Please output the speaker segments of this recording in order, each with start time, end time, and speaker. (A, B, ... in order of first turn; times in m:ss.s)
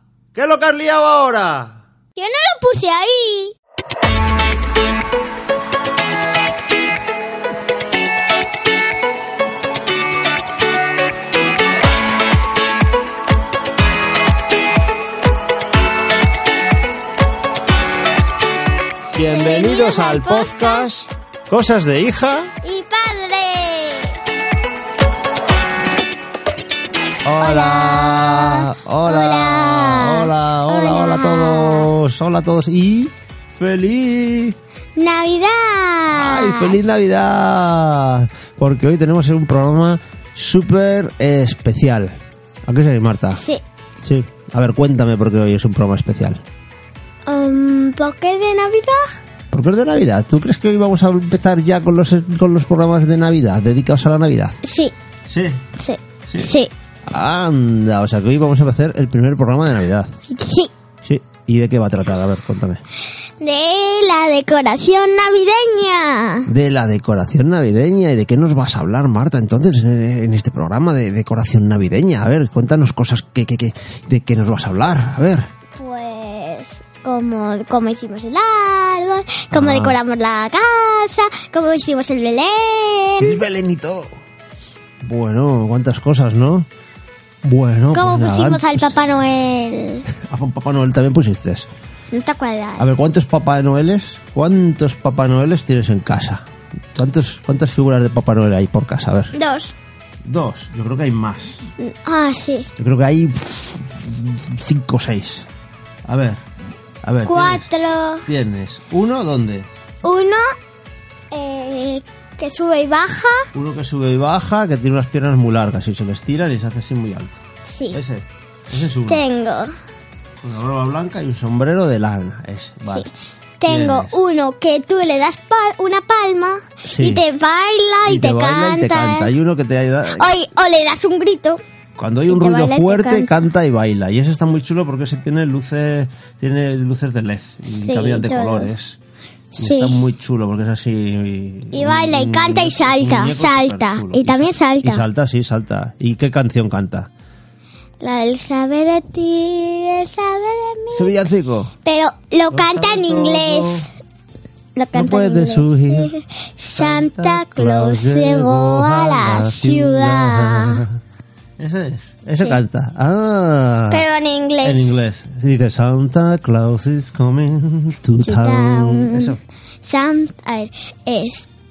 0:00.3-0:01.8 A
0:02.2-0:03.5 B
0:19.1-0:22.5 A
0:19.2-0:20.9 B
0:22.6-0:24.2 B
0:27.2-0:34.6 A
0:27.4-0:31.9 B
0:35.0-0:36.8 B
0:36.1-0:43.4 A
0:43.3-0:43.6 B
0:44.0-0:46.4 A
0:47.3-0:49.1 B
0:49.5-0:54.6 A
0:54.6-0:54.9 B
0:55.3-0:55.6 A
0:55.8-0:56.7 B
0:56.3-0:56.5 A
0:57.1-1:00.1 A
1:00.3-1:00.7 B
1:01.0-1:02.8 A
1:03.4-1:06.5 B
1:06.5-1:15.5 A
1:15.8-1:23.4 B
1:19.5-1:20.0 A
1:23.2-1:24.1 A
1:25.0-1:26.7 A
1:27.4-1:29.0 A
1:27.9-1:30.1 B
1:30.1-1:31.7 A
1:32.1-1:32.9 B
1:32.8-1:39.3 A
1:39.3-1:39.7 B
1:40.2-1:41.7 A
1:41.8-1:42.7 B
1:42.8-1:45.5 A
1:46.0-1:46.4 A
1:47.0-1:47.7 A
1:47.2-1:48.3 B
1:48.2-1:49.7 A
1:50.0-1:50.5 B
1:51.3-1:53.5 B
1:53.5-1:57.4 A
1:57.6-1:58.0 B
1:57.9-1:59.2 A
1:59.1-1:59.7 B
2:00.4-2:03.1 A
2:03.6-2:09.3 B
2:03.6-2:04.2 A
2:06.8-2:07.2 A
2:08.0-2:10.3 A
2:10.1-2:11.6 B
2:12.0-2:19.0 A
2:12.3-2:13.5 B
2:17.6-2:18.7 B
2:19.5-2:20.0 B
2:19.6-2:27.1 A
2:21.7-2:25.0 B
2:28.0-2:31.1 B
2:30.9-2:31.7 A
2:31.8-2:33.9 B
2:32.5-2:33.9 A
2:34.8-2:40.8 B
2:34.9-2:36.1 A
2:36.7-2:41.0 A
2:41.6-2:44.0 A
2:42.3-2:42.6 B
2:43.9-2:45.0 B
2:44.6-2:49.4 A
2:48.2-2:51.5 B